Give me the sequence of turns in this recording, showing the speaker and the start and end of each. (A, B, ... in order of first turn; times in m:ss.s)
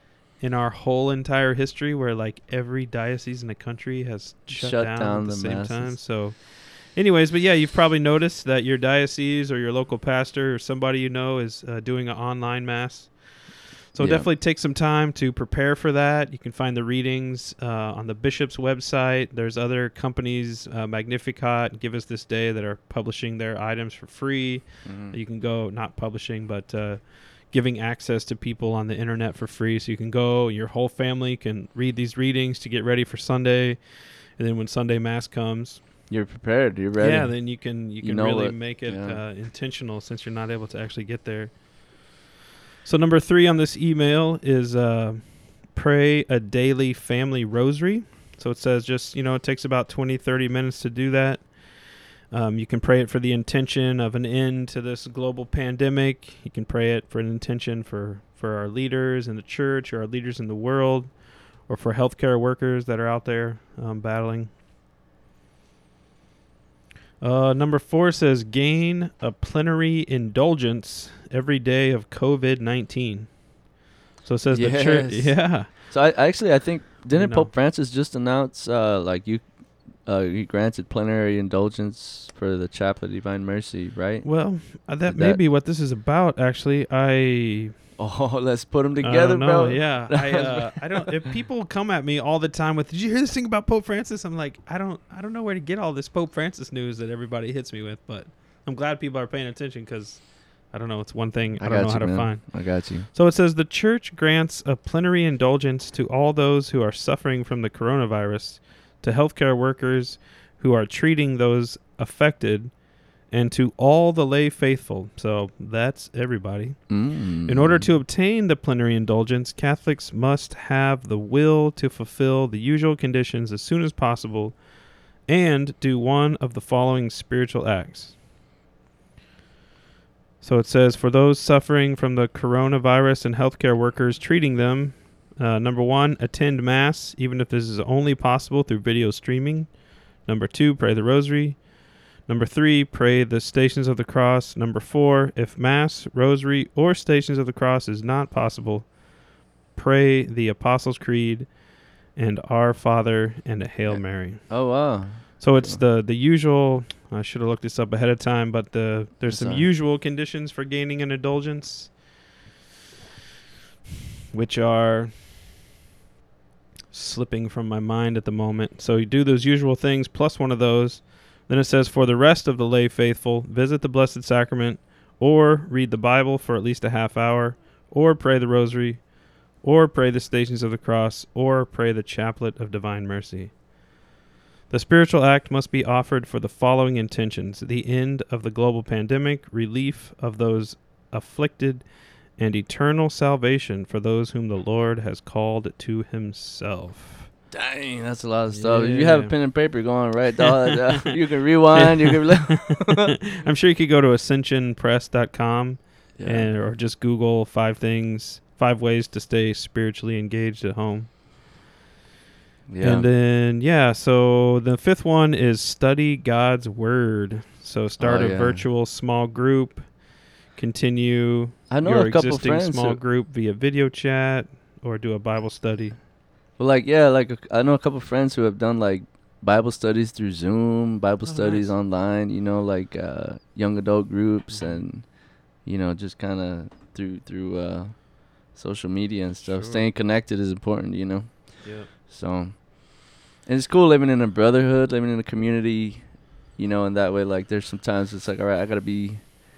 0:00.4-0:35.9 A
0:04.5-0:06.0 B
0:14.0-0:14.3 B
0:24.8-0:25.2 B
0:36.1-0:39.2 B
0:37.0-0:41.8 A
0:42.8-1:04.5 A
1:07.2-1:13.5 A
1:14.2-1:15.7 A
1:14.5-1:25.4 B
1:17.1-1:17.5 A
1:24.2-1:27.7 A
1:28.0-1:30.8 B
1:29.0-2:08.2 A
1:41.6-1:43.1 B
1:56.9-1:57.9 B
2:10.4-2:29.2 A
2:29.7-2:34.8 A
2:33.9-2:35.8 B
2:35.4-2:42.0 A
2:39.3-2:39.7 B
2:44.3-2:45.3 A
2:46.9-3:03.6 A
3:04.7-3:17.3 A
3:17.5-3:23.1 B
3:18.5-3:19.8 A
3:20.5-3:21.0 A
3:21.7-3:31.1 A
3:26.2-3:26.5 B
3:32.7-3:33.1 B
3:32.8-3:46.0 A
3:38.0-3:38.6 B
3:41.7-3:43.0 B
3:46.6-4:09.4 B
3:51.2-3:51.7 A
3:54.5-3:54.8 A
3:59.4-3:59.9 A
4:01.6-4:01.9 A